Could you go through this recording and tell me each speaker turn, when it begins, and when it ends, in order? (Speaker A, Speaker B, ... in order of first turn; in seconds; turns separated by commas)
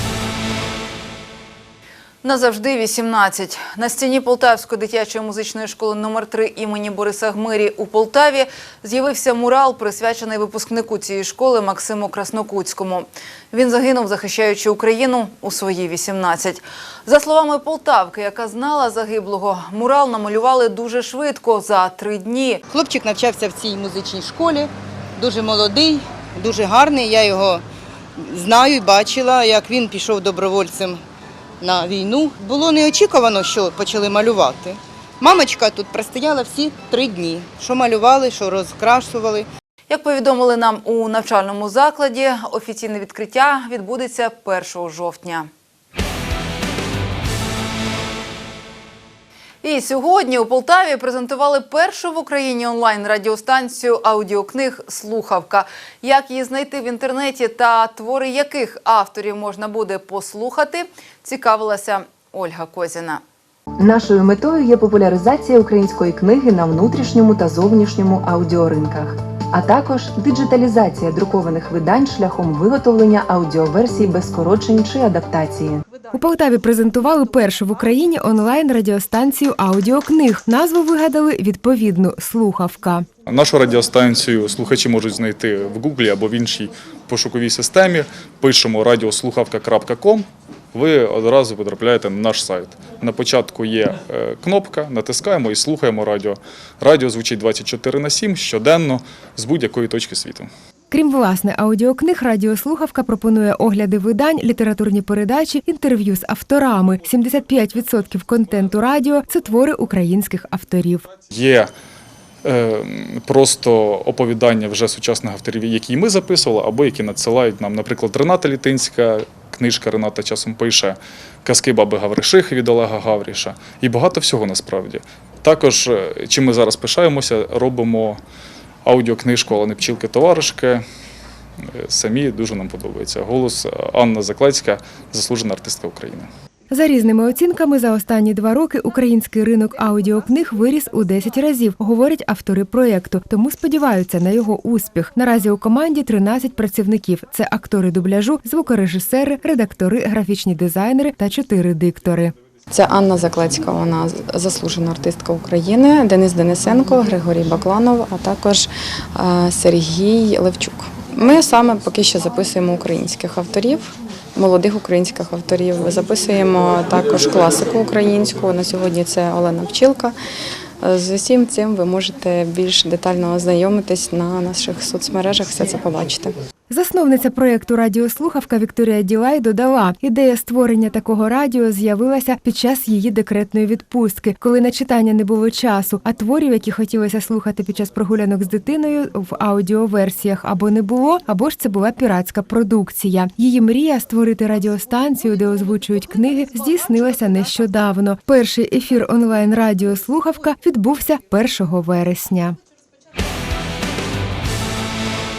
Speaker A: 2.2-22.6, Speaker B: 22.9-24.6, Speaker B: 25.2-27.6, Speaker B: 28.3-30.9, Speaker B: 31.6-34.7, Speaker B: 35.2-39.4, Speaker A: 39.9-45.5, Speaker A: 49.6-63.2, Speaker C: 63.8-75.8, Speaker D: 76.1-83.0, Speaker E: 83.3-100.5, Speaker D: 100.9-111.0, Speaker E: 111.3-111.7, Speaker E: 112.4-128.2, Speaker E: 128.8-130.8, Speaker E: 131.9-136.3, Speaker D: 136.7-152.3, Speaker F: 152.7-170.1, Speaker F: 170.8-176.3, Speaker D: 176.7-202.6